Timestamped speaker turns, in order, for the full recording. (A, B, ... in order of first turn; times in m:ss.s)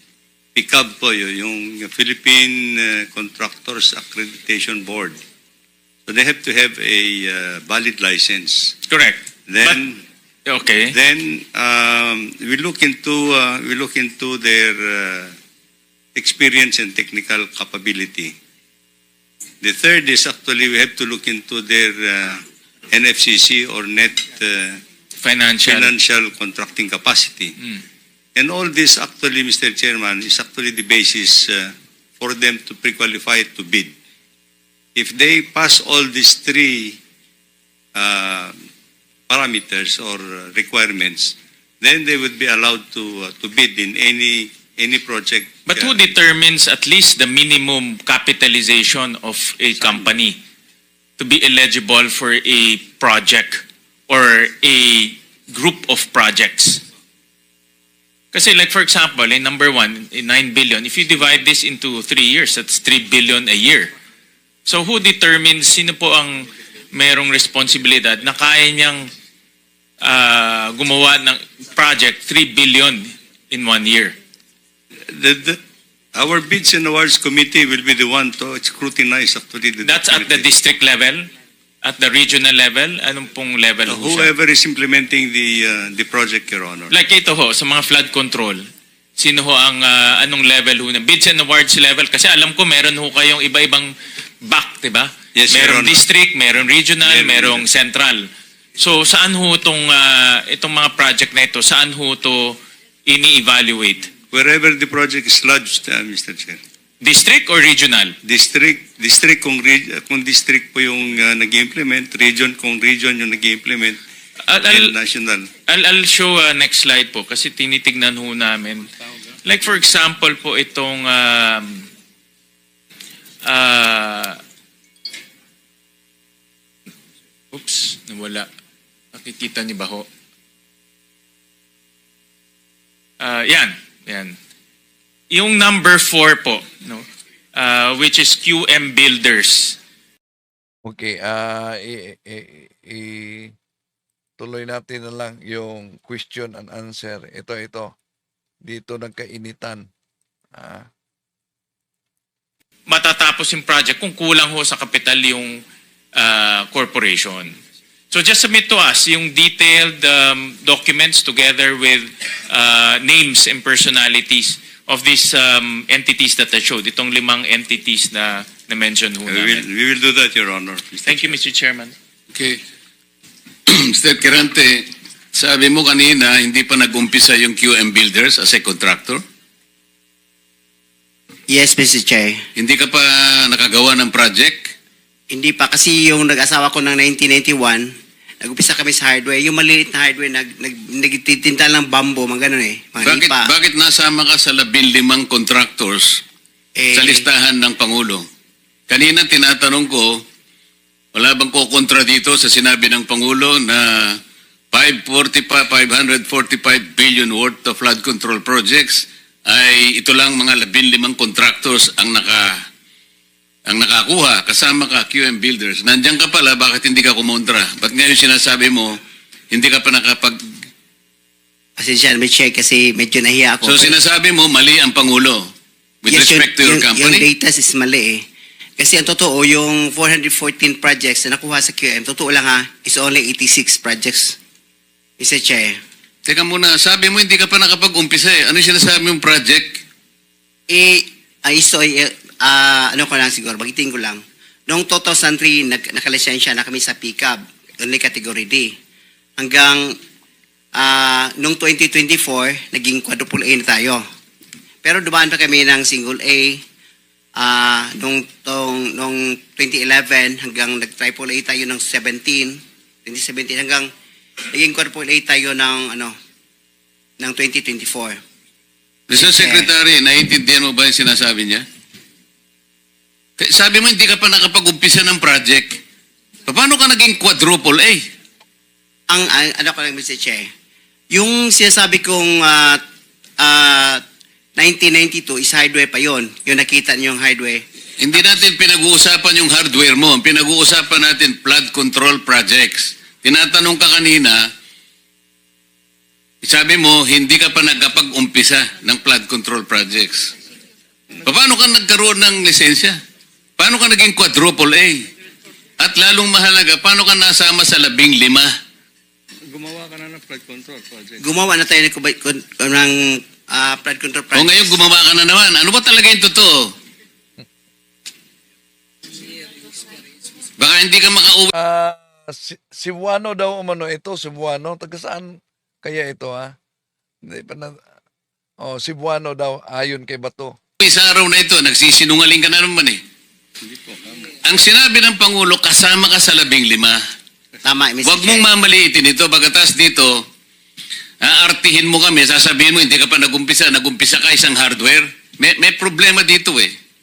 0:00.6-0:05.2 A
0:06.1-0:08.7 A
0:08.9-0:09.8 B
0:09.5-0:10.0 A
0:10.5-0:10.9 B
0:10.9-0:15.3 A
0:16.2-0:18.3 A
0:19.6-0:22.4 A
0:22.9-0:24.8 A
0:25.2-0:25.9 B
0:25.7-0:27.5 A
0:28.4-0:33.9 A
0:35.0-0:37.0 A
0:38.0-0:38.5 A
0:39.3-0:46.0 A
0:45.7-0:50.4 B
0:51.2-0:56.8 B
0:58.3-1:03.9 B
1:04.7-1:09.1 B
1:10.0-1:14.2 B
1:15.2-1:15.6 A
1:16.2-1:20.5 A
1:19.8-1:21.3 B
1:21.8-1:24.3 B
1:23.9-1:26.9 A
1:26.9-1:28.6 B
1:29.2-1:33.9 B
1:34.4-1:38.3 B
1:35.4-1:36.0 A
1:37.1-1:37.6 A
1:38.8-1:44.1 B
1:44.3-1:46.6 A
1:47.0-1:48.2 B
1:48.2-1:54.0 A
1:54.5-1:54.9 B
1:54.7-1:55.5 A
1:55.7-1:58.9 B
1:59.4-2:01.9 B
2:03.4-2:04.4 B
2:07.5-2:08.5 B
2:09.1-2:10.1 B
2:13.2-2:14.4 B
2:15.3-2:17.0 B
2:17.6-2:19.8 B
2:20.9-2:23.5 C
2:24.4-2:27.9 C
2:28.7-2:29.9 C
2:30.6-2:30.9 C
2:32.9-2:35.6 B
2:36.2-2:37.5 B
2:38.1-2:49.6 B
2:49.3-2:51.3 A
2:51.1-2:51.9 B
2:52.3-2:52.6 D
2:53.7-2:59.2 D
3:01.5-3:02.4 E
3:02.6-3:04.7 D
3:05.3-3:07.9 E
3:08.4-3:13.5 E
3:13.0-3:16.2 D
3:16.8-3:17.3 E
3:16.9-3:18.2 D
3:18.9-3:20.2 D
3:21.2-3:24.2 D
3:24.7-3:32.5 D
3:33.7-3:39.0 D
3:39.5-3:40.4 D
3:41.8-3:43.9 E
3:43.6-3:45.5 D
3:46.0-3:47.3 D
3:46.1-3:48.2 E
3:48.8-3:54.4 E
3:55.2-3:55.8 E
3:56.3-3:59.8 D
4:00.7-4:08.7 E
4:09.4-4:09.9 E
4:10.8-4:14.0 E
4:14.8-4:16.6 E
4:17.4-4:23.9 E
4:24.5-4:26.1 E
4:27.2-4:28.2 E
4:29.1-4:31.6 D
4:29.1-4:29.7 E
4:33.4-4:35.8 D
4:36.5-4:38.0 D
4:39.1-4:40.5 E
4:41.1-4:42.8 E
4:43.4-4:44.0 E
4:44.6-4:47.6 E
4:48.0-4:54.4 D
4:56.4-5:00.3 D
5:01.2-5:03.0 D
5:03.6-5:05.0 D
5:05.8-5:08.5 D
5:09.5-5:11.2 A
5:11.2-5:14.8 E
5:14.3-5:16.5 D
5:20.6-5:21.5 D
5:21.5-5:26.5 C
5:27.3-5:27.8 C
5:28.6-5:30.6 C
5:30.8-5:33.0 D
5:34.4-5:37.0 D
5:37.6-5:38.5 E
5:38.0-5:40.2 D
5:41.2-5:46.7 D